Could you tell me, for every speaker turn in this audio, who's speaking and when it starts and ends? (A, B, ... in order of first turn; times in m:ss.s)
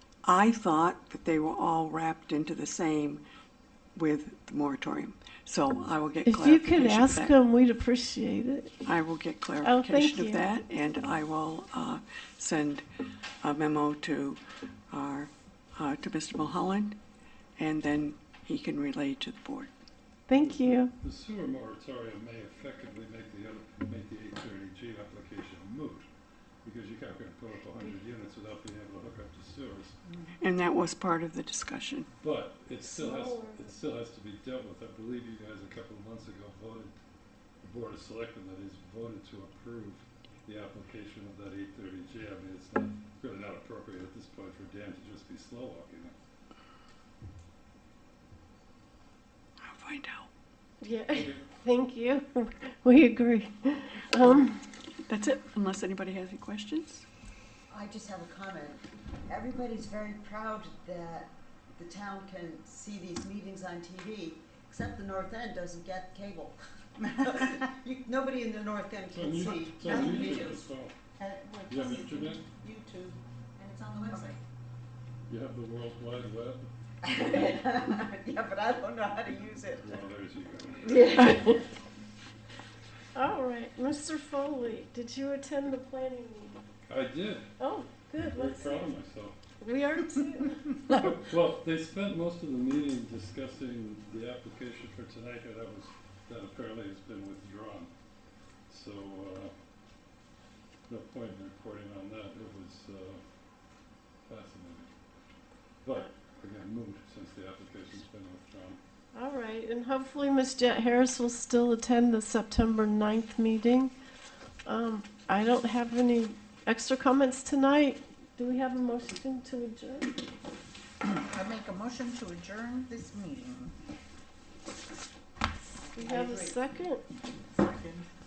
0:00.2-0:03.2 A
0:04.0-0:07.3 A
0:06.2-0:08.8 B
0:08.8-0:12.8 A
0:09.6-0:10.4 B
0:13.4-0:17.0 A
0:17.6-0:19.7 A
0:20.3-0:20.9 B
0:20.3-0:26.1 C
0:26.6-0:30.0 C
0:30.4-0:32.1 A
0:32.2-0:37.0 C
0:32.8-0:33.7 B
0:37.6-0:46.1 C
0:49.6-0:50.3 A
0:50.8-0:54.6 B
0:51.1-0:51.4 C
0:55.1-0:57.1 A
0:57.7-1:14.4 D
1:09.1-1:11.0 C
1:11.7-1:12.5 C
1:15.3-1:16.7 C
1:17.0-1:20.0 D
1:19.8-1:21.0 C
1:20.8-1:21.6 B
1:21.0-1:21.6 D
1:23.1-1:26.6 B
1:26.8-1:27.5 C
1:27.6-1:28.7 B
1:28.1-1:29.4 C
1:29.6-1:30.8 B
1:30.9-1:37.9 C
1:38.7-1:39.5 C
1:40.9-1:43.2 C
1:44.3-1:44.9 C
1:45.8-1:48.8 C
1:49.1-1:53.9 B
1:54.6-2:00.1 B
2:01.0-2:03.7 E
2:05.8-2:06.6 D
2:05.8-2:07.0 B
2:07.6-2:08.0 E